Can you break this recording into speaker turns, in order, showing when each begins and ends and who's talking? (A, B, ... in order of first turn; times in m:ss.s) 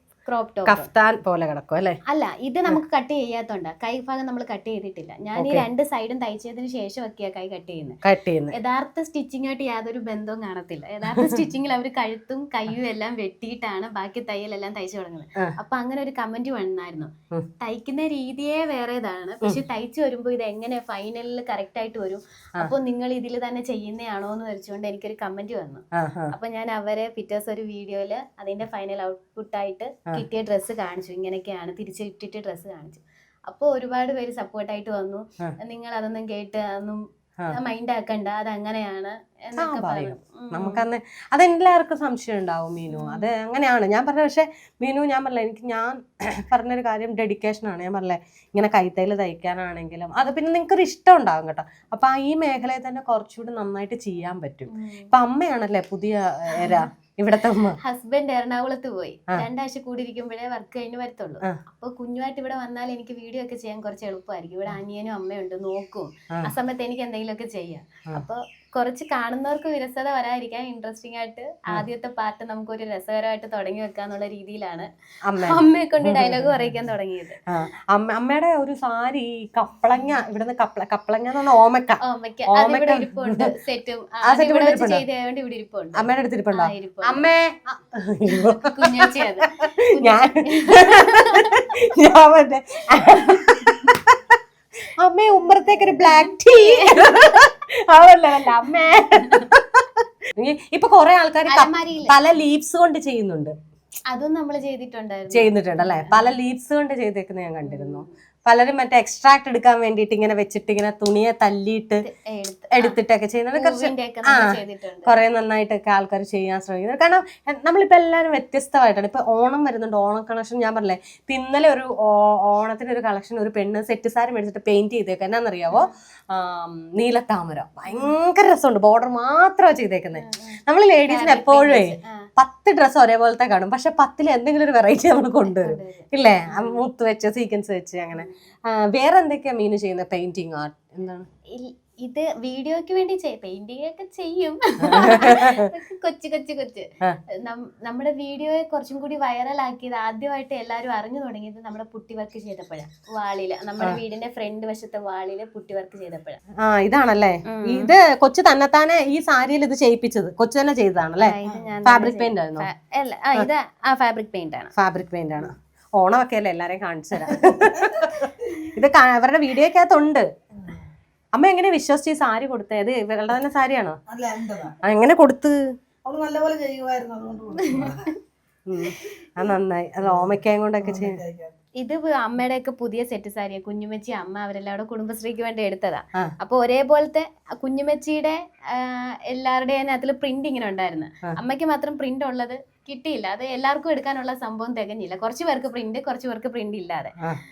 0:00.2-0:00.9 A
0:00.7-0:02.0 B
0:02.1-0:08.0 A
0:05.4-0:05.6 B
0:08.0-0:08.5 B
0:08.5-0:40.8 A
0:11.1-0:11.4 B
0:25.9-0:26.3 B
0:39.6-0:57.8 B
0:42.9-0:43.3 A
0:54.7-0:55.1 A
0:56.6-0:56.9 A
0:57.8-1:17.4 A
1:15.2-1:16.7 B
1:17.5-1:23.5 B
1:22.0-1:27.2 A
1:24.2-1:25.0 B
1:25.9-1:34.4 B
1:28.3-1:31.6 A
1:33.0-1:33.9 A
1:35.0-1:43.5 B
1:35.4-1:37.4 A
1:38.6-1:39.5 A
1:41.5-1:42.1 A
1:44.1-1:46.3 A
1:45.3-1:52.0 B
1:47.6-1:48.0 A
1:52.0-1:53.0 A
1:52.7-2:21.3 B
1:53.5-1:55.1 A
2:07.9-2:08.1 A
2:10.2-2:12.3 A
2:15.4-2:16.8 A
2:21.5-2:36.4 A
2:24.8-2:25.7 B
2:36.6-2:42.7 B
2:37.4-2:37.9 A
2:41.2-2:44.7 A
2:41.4-2:41.7 C
2:44.8-2:50.3 B
2:51.3-2:54.0 B
2:54.1-2:54.7 C
2:54.8-2:55.7 B
2:56.0-2:58.0 C
2:57.7-2:58.1 A
2:58.7-3:01.2 B
3:00.0-3:01.6 C
3:01.8-3:17.2 A